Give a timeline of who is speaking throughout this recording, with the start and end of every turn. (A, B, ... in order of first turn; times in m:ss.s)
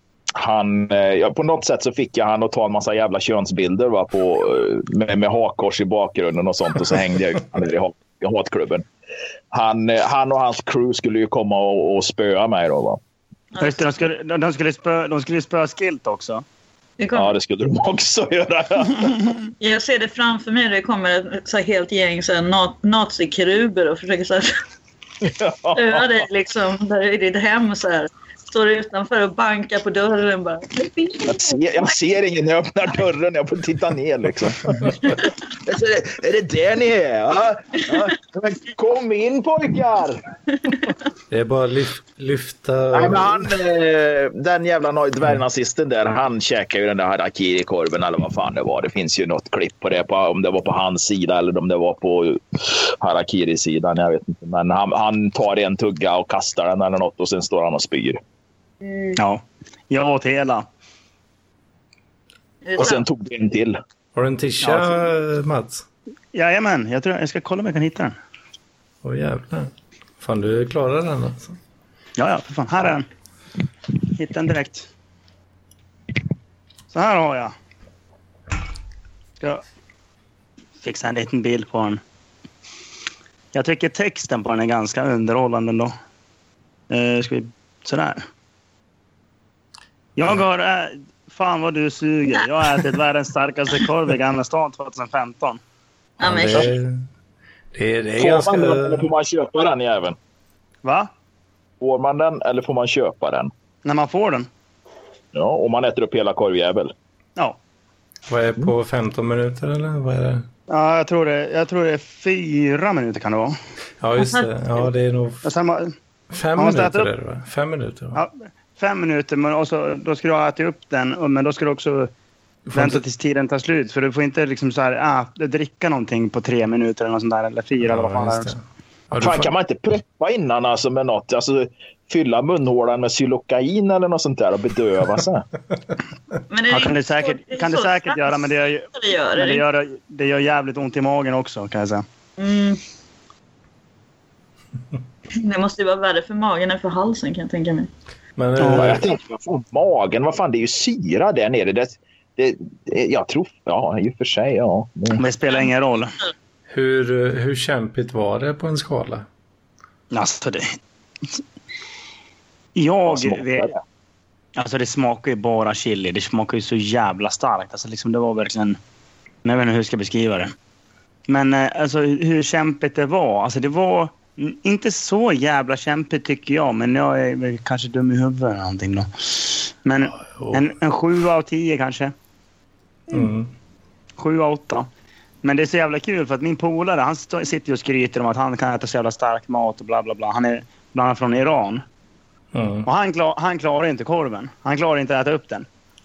0:00.4-0:08.9 A
0:09.5-0:13.0 A
0:13.5-0:13.8 B
0:13.6-0:16.4 C
0:17.0-0:17.3 B
0:17.2-0:19.3 A
0:19.6-0:24.6 B
0:25.2-0:26.2 A
0:25.7-0:31.6 B
0:31.3-0:40.2 A
0:41.3-0:43.5 D
0:42.9-0:58.2 A
0:58.9-0:59.2 B
0:59.2-1:00.7 C
1:02.6-1:03.0 B
1:02.8-1:03.8 A
1:04.2-1:05.8 D
1:06.3-1:08.2 C
1:09.0-1:11.6 D
1:12.2-1:13.1 C
1:14.2-1:14.9 C
1:16.9-1:17.5 C
1:20.8-1:22.0 C
1:23.5-1:25.9 C
1:26.9-1:28.2 C
1:30.2-1:35.6 C
1:36.2-1:37.0 D
1:36.2-1:36.7 B
1:37.7-1:39.1 D
1:38.2-1:40.2 A
1:40.8-1:41.1 C
1:41.8-1:43.5 A
1:43.8-1:44.5 C
1:45.3-1:46.9 A
1:48.3-1:50.5 D
1:50.7-1:53.6 C
1:54.0-1:55.4 D
1:54.2-1:54.5 B
1:55.4-1:55.9 C
1:56.3-1:58.2 D
1:56.6-1:57.1 C
1:58.1-2:02.1 C
2:02.7-2:03.0 D
2:02.8-2:08.5 C
2:07.8-2:09.5 D
2:09.2-2:15.4 A
2:16.5-2:19.6 B
2:16.7-2:22.0 C
2:22.4-2:22.8 B
2:25.3-2:27.9 B
2:28.4-2:29.1 D
2:28.6-2:29.0 C
2:28.8-2:35.2 A
2:35.2-2:36.2 C
2:36.7-2:39.3 D
2:40.1-2:40.8 C
2:42.8-2:43.7 C
2:43.1-2:43.8 A
2:44.6-2:48.8 C
2:49.4-2:50.5 C
2:51.3-3:02.1 C
3:00.4-3:00.6 D
3:03.1-3:03.5 D
3:04.2-3:04.9 C
3:05.4-3:11.8 C
3:12.5-3:12.9 D
3:12.8-3:15.7 C